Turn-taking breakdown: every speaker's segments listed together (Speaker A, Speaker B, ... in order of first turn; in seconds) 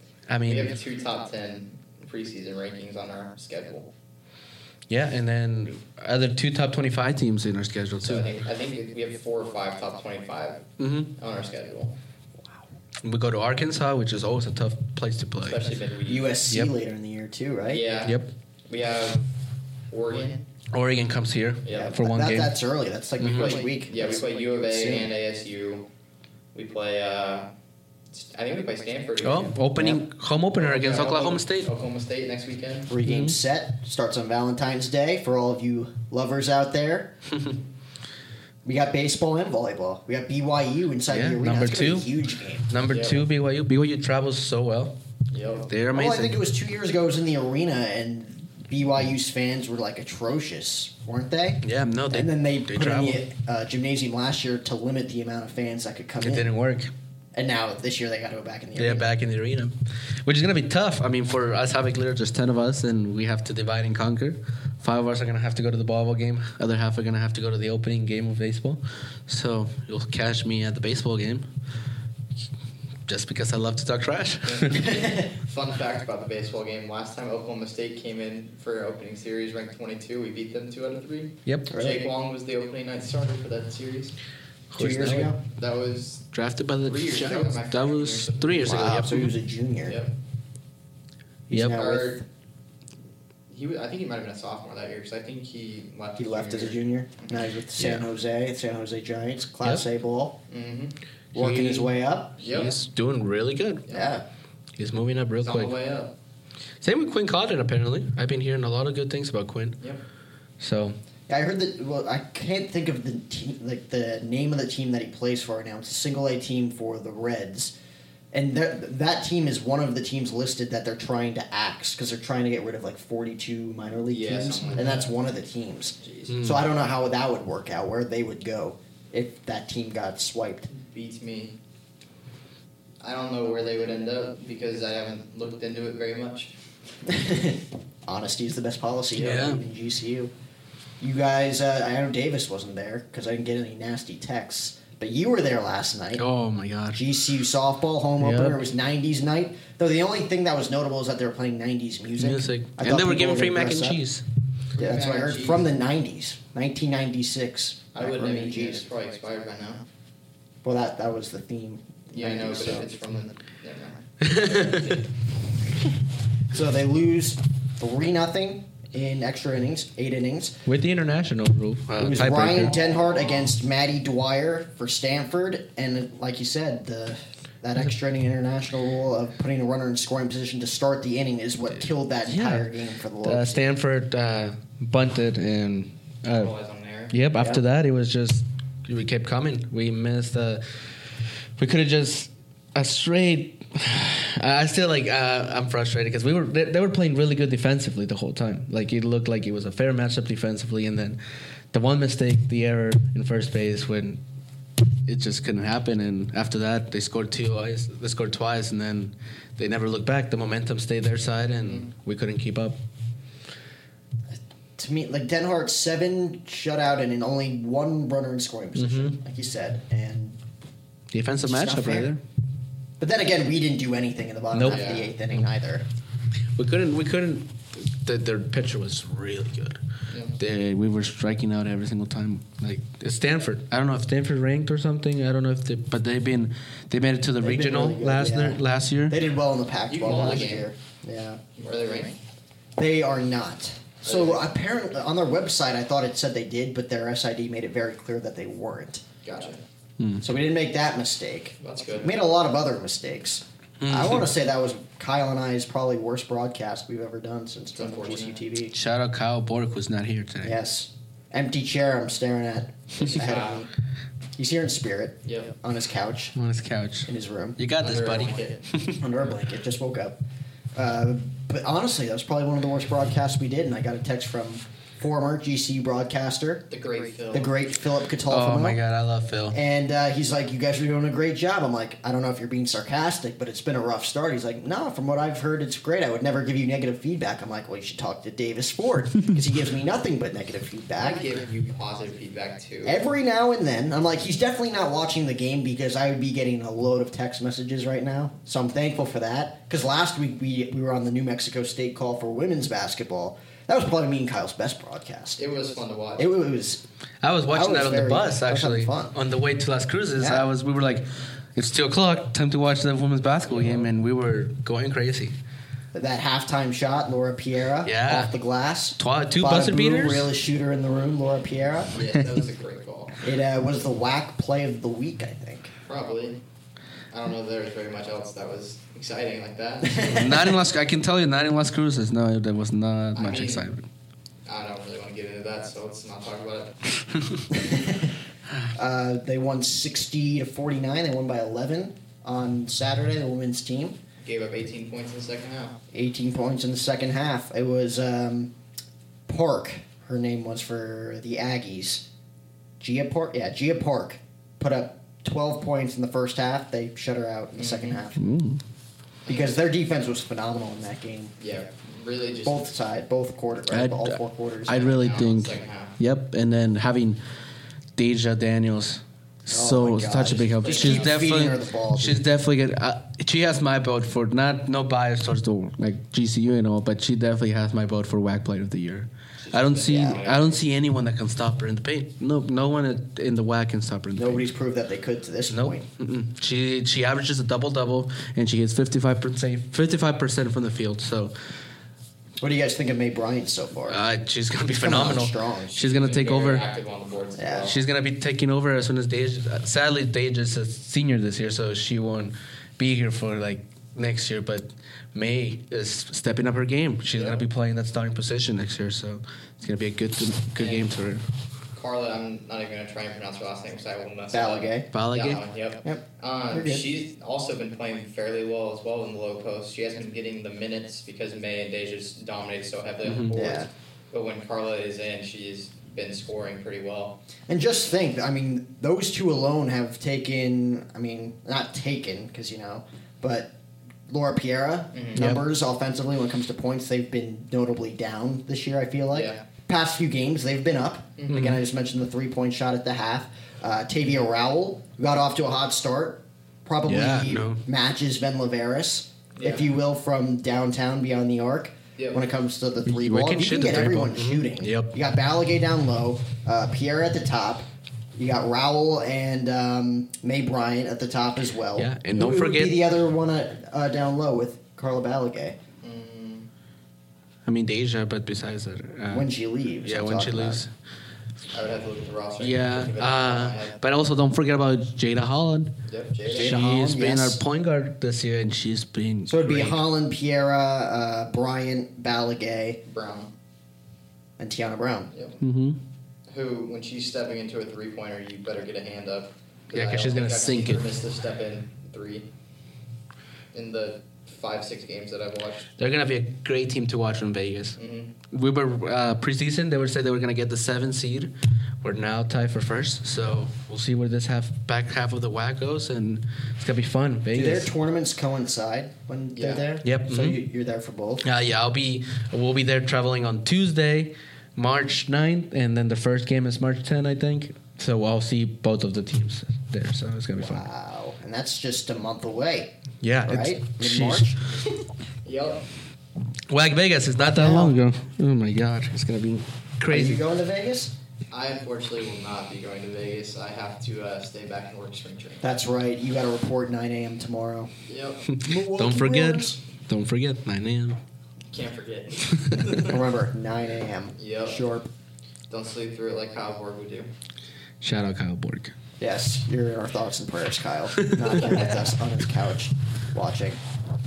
Speaker A: 0.3-0.8, 4.9-8.3, 10.8-11.1, 13.0-15.6, 18.0-18.3, 20.7-22.6, 23.2-23.6, 29.2-31.7, 33.0-33.4, 41.1-42.1, 42.7-45.0, 45.7-46.4, 51.6-53.2, 56.2-56.9, 58.8-71.5, 73.1-74.9, 81.5-81.7, 84.7-85.4, 86.3-89.3, 91.5-91.8, 97.8-98.1, 101.3-103.8, 104.8-105.7, 106.8-109.8, 110.6-111.0, 126.3-126.6, 139.2-139.6, 146.2-147.0, 148.2-148.6, 152.2-154.2, 164.2-165.0, 170.7-172.7, 182.3-182.7, 183.2-186.5, 187.1-190.9, 191.6-201.2, 201.7-204.2, 205.1-212.8, 218.8-219.2, 221.1-222.2, 224.5-224.9, 226.6-229.8, 230.4-239.2, 250.0-250.2, 253.8-254.3, 258.7-260.6, 266.4-269.0, 278.3-279.6, 307.2-315.3, 317.8-318.3, 319.0-320.3, 330.0-333.9, 337.2-337.4, 358.2-358.6, 363.7-367.2, 368.0-384.5, 385.5-391.3, 393.9-396.7, 397.7-411.2, 414.9-415.4, 423.1-423.3, 435.2-435.4, 441.3-441.6, 446.9-447.6, 452.9-454.9, 461.8-462.8, 467.5-469.3, 469.8-470.7, 472.4-475.8, 476.3-479.8, 485.4-485.8, 489.7-490.9, 495.8-497.8, 498.3-507.7, 509.8-510.4, 511.2-520.7, 523.0-524.4, 526.5-530.3, 538.3-541.0, 542.3-542.7, 547.8-548.8, 551.0-551.6
Speaker B: 0.5-3.9, 8.0-12.0, 15.5-16.4, 17.7-19.3, 19.9-20.5, 21.6-22.0, 23.4-25.9, 26.5-27.5, 28.1-29.6, 30.6-32.9, 42.9-43.2, 45.3-45.7, 74.5-84.2, 85.5-86.3, 86.8-89.0, 89.9-90.1, 91.6-92.2, 93.5-97.4, 100.5-101.0, 102.4-102.8, 103.9-104.1, 105.4-106.1, 124.1-125.1, 126.0-126.3, 130.7-131.6, 133.0-136.6, 154.8-155.7, 157.9-159.9, 162.1-165.1, 186.3-187.1, 224.7-225.1, 239.9-240.7, 241.6-242.2, 244.1-244.4, 249.2-249.6, 251.6-252.2, 257.8-258.4, 263.0-263.7, 265.3-265.5, 267.8-268.6, 276.7-277.6, 291.0-293.0, 305.4-306.3, 321.9-323.2, 325.9-326.4, 327.1-330.2, 333.2-333.7, 334.5-336.9, 344.2-345.8, 357.5-358.0, 359.3-359.6, 361.4-362.7, 364.7-366.0, 370.6-371.3, 379.4-380.6, 395.7-397.8, 407.2-407.4, 410.6-410.9, 411.7-427.2, 434.9-435.2, 439.1-439.4, 441.2-441.5, 449.4-449.7, 452.0-452.2, 465.8-466.5, 471.5-473.8, 475.9-476.6, 482.9-483.3, 485.1-485.4, 486.3-492.3, 493.5-495.7, 497.8-498.2, 509.3-509.7, 525.2-525.7, 531.3-535.5, 537.9-538.2, 541.5-543.0, 544.2-544.6, 545.5-547.1
Speaker C: 16.1-17.9, 21.7-25.1, 29.8-30.0, 32.9-37.1, 38.6-42.7, 45.9-56.5, 57.3-59.1, 81.7-82.1, 84.8-85.4, 88.6-90.0, 91.5-92.2, 96.2-100.4, 101.3-102.3, 103.9-104.2, 111.3-117.8, 118.3-130.7, 137.1-140.3, 141.0-146.2, 146.9-154.0, 154.8-158.8, 160.6-162.9, 166.5-170.6, 172.0-183.7, 214.3-220.4, 221.4-222.1, 223.0-225.8, 237.4-241.4, 242.8-249.0, 250.2-258.7, 260.4-263.7, 264.4-266.4, 267.1-267.6, 268.8-270.2, 270.8-276.7, 277.3-278.8, 279.5-291.3, 292.8-305.4, 306.2-306.8, 307.5-309.2, 310.2-310.4, 315.9-322.0, 323.2-325.7, 329.8-330.6, 337.5-338.1, 338.8-344.0, 345.9-348.5, 349.3-352.1, 352.8-358.2, 359.3-361.3, 362.4-365.2, 369.5-372.2, 379.9-380.2, 384.2-385.9, 392.4-394.0, 394.8-395.7, 397.4-397.7, 414.3-414.9, 415.9-416.9, 423.3-423.7, 427.5-433.6, 434.1-465.6, 469.1-470.6, 476.3-477.4, 479.3-482.8, 484.4-485.1, 507.3-511.2, 520.4-524.4, 527.2-527.8, 529.9-530.9, 535.4-537.7, 538.4-539.6, 542.7-544.9, 549.0-553.6